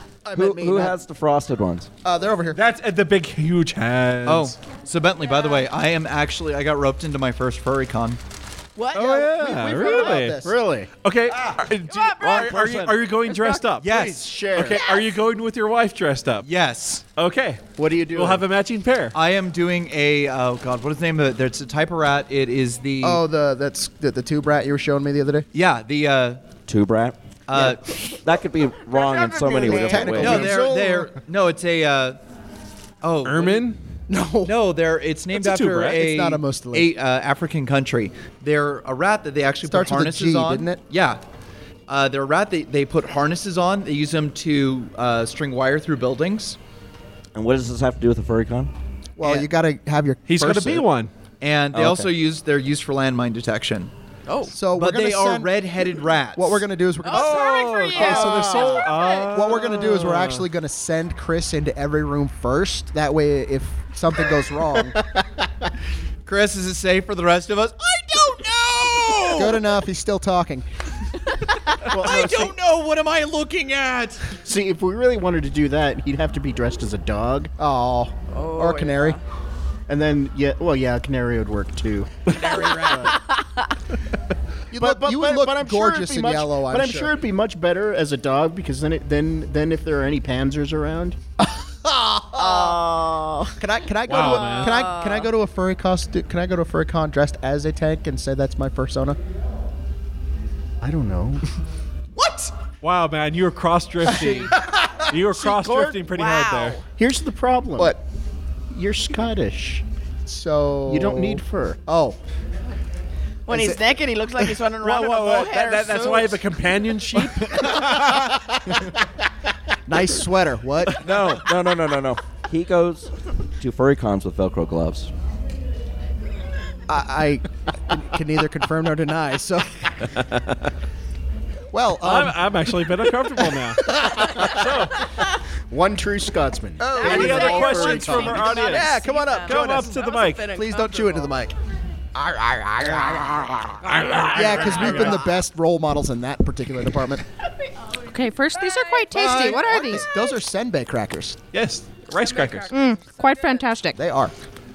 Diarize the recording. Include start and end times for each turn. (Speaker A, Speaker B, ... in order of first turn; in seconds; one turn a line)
Speaker A: 0.2-1.0
Speaker B: 0.3-1.9
Speaker A: 2.0-2.6
Speaker C: 2.5-4.5
Speaker D: 4.2-8.2
Speaker E: 8.8-10.2
Speaker A: 8.9-10.6
Speaker C: 9.0-10.5
Speaker F: 10.3-10.9
Speaker C: 11.0-14.0
Speaker E: 11.9-13.7
Speaker F: 12.3-13.0
Speaker D: 13.7-14.8
Speaker F: 13.9-14.8
Speaker C: 14.6-16.5
Speaker D: 16.4-17.1
Speaker C: 17.1-19.2
Speaker F: 17.8-18.5
Speaker D: 19.1-23.2
Speaker A: 23.0-25.5
Speaker D: 25.5-26.4
Speaker B: 26.7-30.6
Speaker D: 27.5-27.8
Speaker E: 28.9-30.2
Speaker A: 29.5-31.1
Speaker D: 30.2-32.2
Speaker D: 33.0-33.7
Speaker C: 33.2-33.8
Speaker A: 34.1-34.6
Speaker D: 34.5-41.2
Speaker C: 35.3-36.0
Speaker A: 35.9-36.9
Speaker A: 39.7-40.8
Speaker D: 41.9-46.6
Speaker B: 47.4-48.7
Speaker A: 49.2-50.9
Speaker D: 49.2-49.5
Speaker C: 50.3-51.1
Speaker D: 51.4-53.9
Speaker B: 51.7-52.0
Speaker E: 54.3-54.5
Speaker A: 54.5-65.2
Speaker D: 54.7-56.6
Speaker E: 57.0-59.6
Speaker C: 57.1-60.4
Speaker D: 66.3-69.6
Speaker A: 69.3-70.7
Speaker D: 71.9-74.3
Speaker F: 72.0-72.4
Speaker A: 72.0-72.5
Speaker F: 74.4-77.5
Speaker A: 77.6-79.2
Speaker E: 78.3-79.2
Speaker F: 79.9-83.0
Speaker A: 82.3-83.1
Speaker E: 82.3-83.4
Speaker D: 82.6-83.0
Speaker A: 84.7-87.1
Speaker F: 84.7-91.2
Speaker A: 91.4-92.8
Speaker E: 92.4-93.6
Speaker A: 93.6-99.2
Speaker C: 94.1-94.8
Speaker E: 94.1-95.3
Speaker F: 100.8-101.4
Speaker D: 102.2-102.5
Speaker C: 102.8-104.6
Speaker A: 104.1-104.9
Speaker C: 105.1-106.8
Speaker F: 105.4-106.0
Speaker E: 106.1-106.8
Speaker F: 107.0-108.0
Speaker F: 108.7-109.8
Speaker A: 110.3-112.2
Speaker F: 110.9-111.8
Speaker E: 113.5-116.4
Speaker A: 113.5-113.8
Speaker C: 114.8-118.3
Speaker A: 117.6-118.8
Speaker A: 119.9-121.1
Speaker B: 120.9-125.1
Speaker A: 126.9-130.2
Speaker A: 131.7-134.8
Speaker C: 132.0-134.9
Speaker F: 135.7-137.6
Speaker A: 136.8-141.6
Speaker E: 137.0-141.3
Speaker C: 137.0-140.5
Speaker A: 142.1-147.2
Speaker E: 143.8-145.3
Speaker C: 143.8-145.2
Speaker G: 148.1-150.1
Speaker E: 148.6-149.5
Speaker A: 149.1-151.4
Speaker C: 151.5-152.8
Speaker E: 152.1-153.6
Speaker G: 152.7-154.0
Speaker A: 153.9-154.3